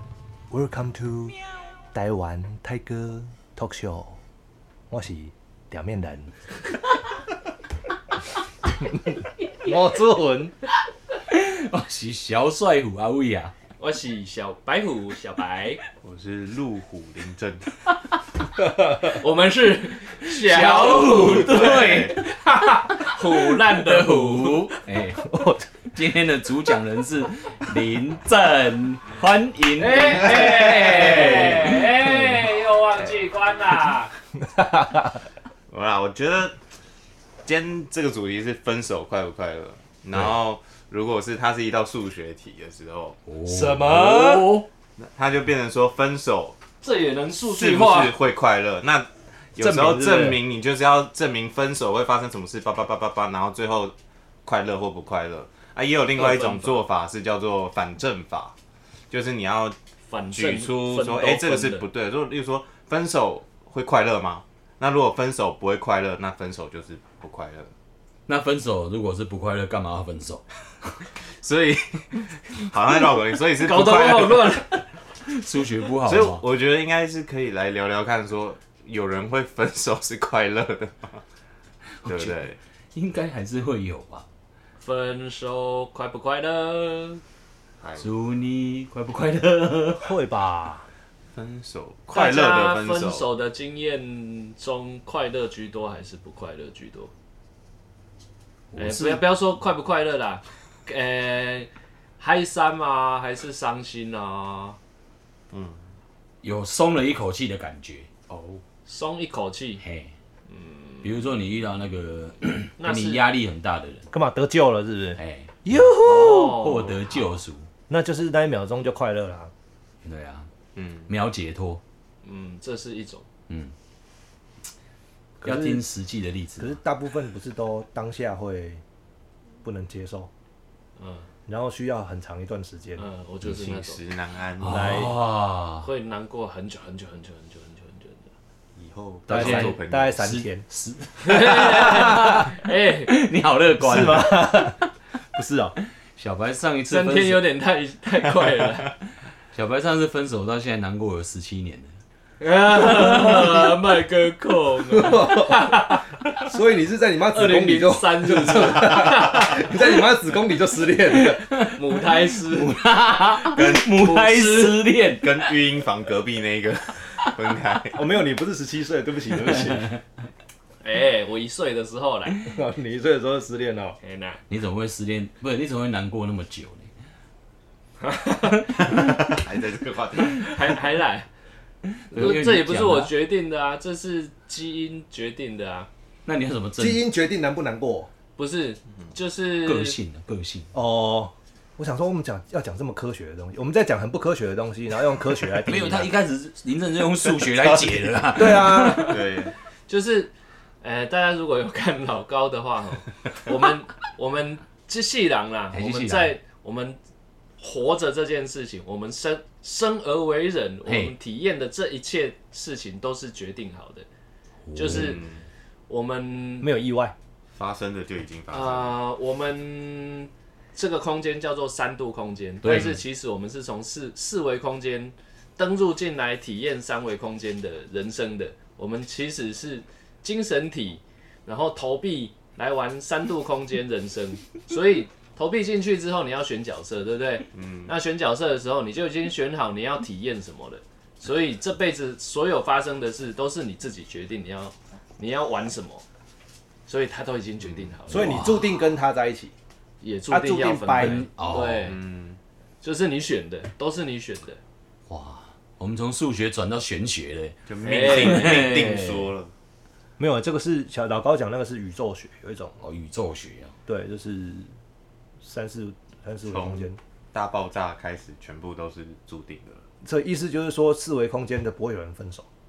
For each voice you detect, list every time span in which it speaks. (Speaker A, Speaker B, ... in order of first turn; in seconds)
Speaker A: 0.5-1.4, 1.9-4.2, 4.9-6.3, 8.8-9.1, 9.6-10.5, 25.2-25.7, 34.4-35.2, 43.5-44.6, 49.6-50.4, 90.0-90.9, 114.1-116.6, 117.9-119.5, 125.4-125.8, 126.6-128.8, 129.6-130.3, 131.5-133.0, 134.6-135.2, 139.3-140.7, 141.7-142.2, 143.8-144.8, 145.3-145.8, 154.9-155.7, 156.4-161.5, 167.9-169.9, 172.4-174.0, 186.8-188.1, 190.7-196.1, 198.3-199.2, 216.6-217.2, 248.1-249.5, 250.3-251.3, 260.2-262.8, 263.9-264.7, 265.4-267.0, 270.0-272.5
Speaker B: 11.3-13.5, 20.3-25.3, 25.9-32.0, 43.3-44.7, 68.3-70.5, 75.3-76.4, 82.0-82.3, 83.0-84.2, 88.0-90.1, 98.7-99.2, 106.4-108.1, 109.8-110.1, 111.0-114.1, 115.2-117.7, 120.0-120.5, 121.1-121.8, 125.4-126.7, 134.6-135.9, 139.3-144.8, 146.2-147.4, 149.5-151.9, 153.0-153.5, 161.3-161.7, 162.5-165.6, 174.5-176.9, 182.1-183.1, 186.3-187.0, 189.7-190.7, 195.6-199.2, 205.7-206.3, 210.8-211.1, 214.7-215.2, 222.6-223.0, 248.1-248.6, 250.9-251.9, 255.1-259.3, 262.8-263.7
Speaker C: 13.8-15.8, 19.0-24.7, 29.8-34.1, 46.8-48.1, 56.1-56.8, 60.1-61.8, 73.6-74.8, 84.8-87.2, 92.1-97.1, 98.8-104.8, 108.8-109.8, 110.5-111.0, 112.8-113.2, 116.0-117.1, 122.2-123.3, 131.0-131.3, 133.0-134.0, 135.8-138.3, 141.2-143.1, 146.9-148.9, 152.4-156.0, 157.3-159.7, 161.6-162.8, 163.8-164.8, 170.8-172.4, 174.0-174.4, 178.0-178.6, 180.4-181.3, 182.1-185.9, 188.4-190.0, 198.9-199.1, 199.9-207.0, 207.6-214.1, 214.7-215.2, 215.9-216.7, 218.5-246.0, 246.9-248.5, 250.0-252.0, 252.8-254.6, 257.8-258.7
Speaker D: 16.0-17.8, 21.1-22.2, 30.3-31.8, 35.7-36.6, 37.5-43.2, 45.0-46.6, 47.5-53.9, 54.5-58.5, 59.1-59.8, 60.3-67.7, 71.4-74.6, 76.0-81.2, 82.0-82.6, 87.8-88.1, 91.3-93.3, 105.5-105.8, 108.3-108.6, 120.8-121.1, 133.4-135.1, 138.8-140.2, 163.4-164.2, 165.1-168.0, 179.0-180.5, 197.4-198.2, 199.0-199.5, 214.9-215.4, 217.5-219.0, 237.5-237.9, 247.6-248.0, 251.5-252.4, 257.7-259.5, 266.5-269.8